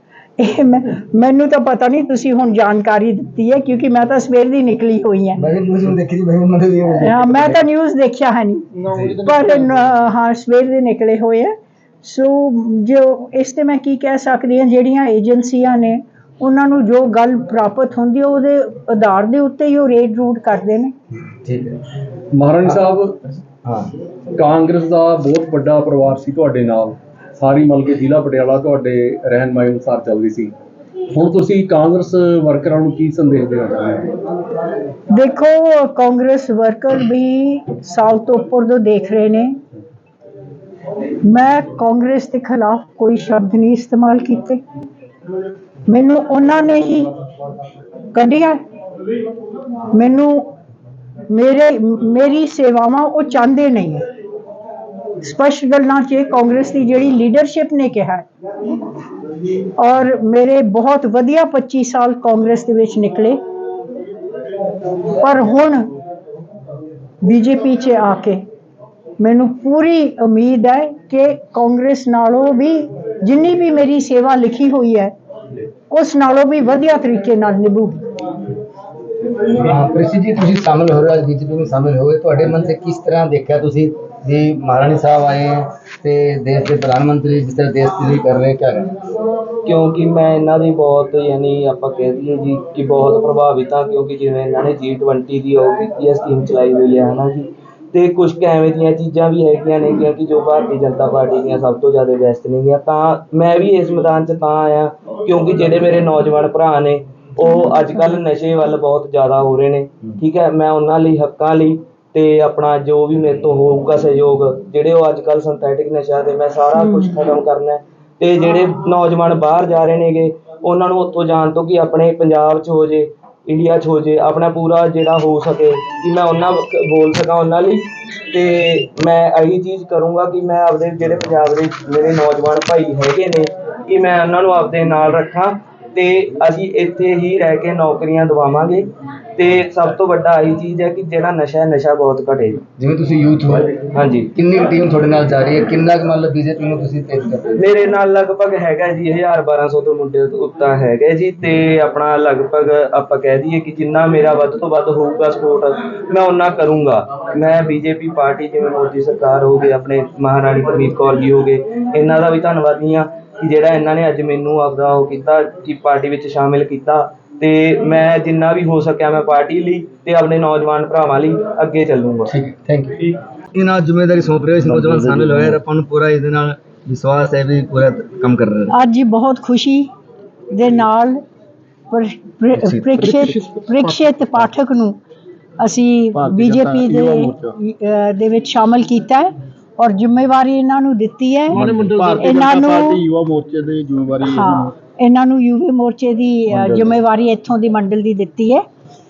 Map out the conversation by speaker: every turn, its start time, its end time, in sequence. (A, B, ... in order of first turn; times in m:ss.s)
0:00.4-0:05.4 A
0:05.4-0:07.6 B
0:07.0-0:20.9 A
0:08.9-0:09.5 C
0:21.3-0:21.8 B
0:22.3-0:23.2 D
0:23.6-0:23.9 B
0:24.4-0:30.6 D
0:31.1-0:34.1 D
0:35.1-0:39.6 A
0:41.2-0:44.6 A
0:45.9-0:47.1 A
0:48.1-0:48.6 A
0:49.9-0:50.5 A
0:51.3-0:54.0 A
0:55.2-0:58.3 A
0:59.8-1:03.4 A
1:05.1-1:05.9 A
1:07.2-1:08.4 A
1:09.2-1:15.1 A
1:15.9-1:18.1 A
1:19.5-1:28.9 B
1:29.6-2:22.6 E
1:56.8-1:57.1 A
2:22.8-2:27.6 B
2:23.9-2:24.3 E
2:27.6-2:52.3 E
2:52.3-2:58.7 B
2:54.8-2:55.4 C
2:58.7-2:59.9 A
3:00.5-3:01.2 A
3:01.9-3:05.0 A
3:02.6-3:03.0 B
3:03.0-3:03.8 C
3:05.6-3:11.7 A
3:06.2-3:07.5 C
3:11.5-3:14.7 C
3:11.6-3:12.2 D
3:12.2-3:13.0 A
3:14.2-3:18.6 A
3:16.5-3:16.9 C